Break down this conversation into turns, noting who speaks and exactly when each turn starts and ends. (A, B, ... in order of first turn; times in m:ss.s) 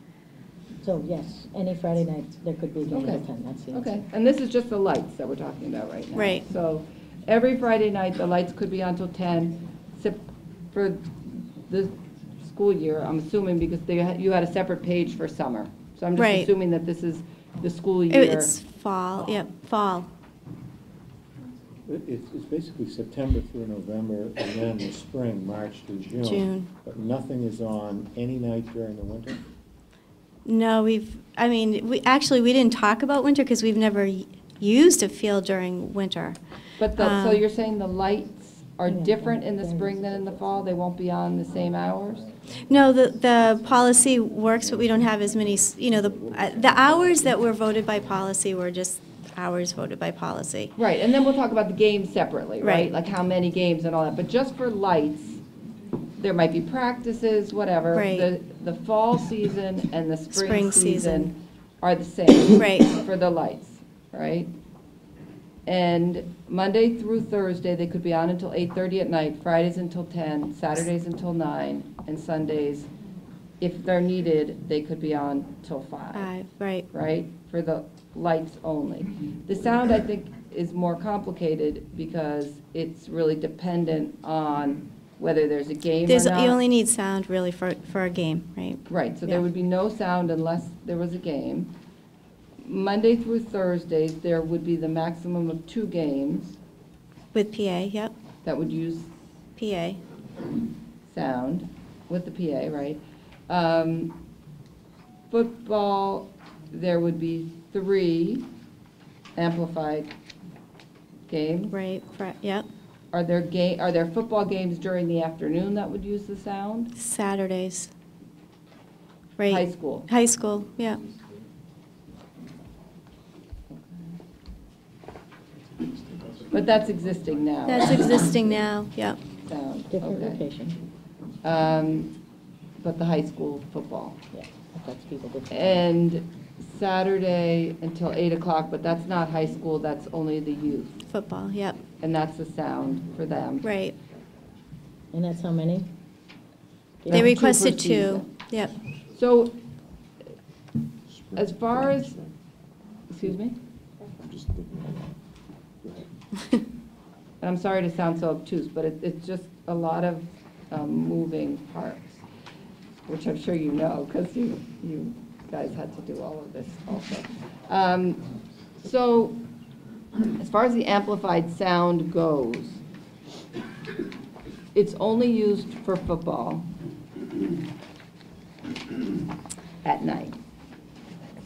0:00.8-0:03.9 A
0:02.9-0:18.6 B
0:06.1-0:06.4 C
0:16.2-0:16.5 C
0:18.1-0:20.1 C
0:21.8-0:29.4 D
0:26.2-0:26.7 C
0:30.4-0:36.4 C
0:36.8-0:42.2 B
0:37.0-0:37.4 C
0:38.9-0:40.9 A
0:42.7-0:50.7 C
0:50.8-0:55.4 B
0:52.6-0:52.9 C
0:56.2-1:04.5 B
0:57.9-0:58.3 C
1:00.3-1:01.3 C
1:02.6-1:02.9 C
1:05.6-1:12.9 B
1:13.6-1:16.3 B
1:16.1-1:16.8 C
1:16.9-1:26.6 B
1:26.1-1:29.4 C
1:28.9-1:31.7 B
1:32.6-1:36.6 B
1:37.3-1:38.1 C
1:38.4-1:39.1 B
1:39.6-1:40.0 C
1:41.1-1:44.2 B
1:45.3-1:48.5 B
1:49.4-1:50.1 B
1:51.3-1:51.7 B
1:51.7-1:52.6 C
1:53.1-1:56.9 B
1:56.9-1:57.9 C
1:59.4-2:01.0 C
1:59.5-2:00.1 B
2:05.7-2:07.7 E
2:06.5-2:08.6 B
2:07.6-2:09.2 C
2:09.4-2:10.4 B
2:09.9-2:10.8 A
2:11.4-2:12.1 B
2:12.8-2:14.2 B
2:14.3-2:15.8 A
2:15.5-2:21.0 B
2:21.1-2:21.8 C
2:22.0-2:23.7 B
2:23.6-2:23.9 C
2:25.1-2:25.9 A
2:27.0-2:27.4 A
2:27.1-2:28.3 B
2:27.1-2:28.7 C
2:29.1-2:29.6 B
2:31.1-2:32.3 E
2:31.3-2:32.2 B
2:33.1-2:33.6 B
2:34.2-2:35.1 E
2:37.4-2:42.2 B
2:43.0-2:48.2 B
2:48.8-2:49.4 B
2:50.4-2:52.8 B
2:54.7-2:56.7 B
2:59.8-3:00.4 B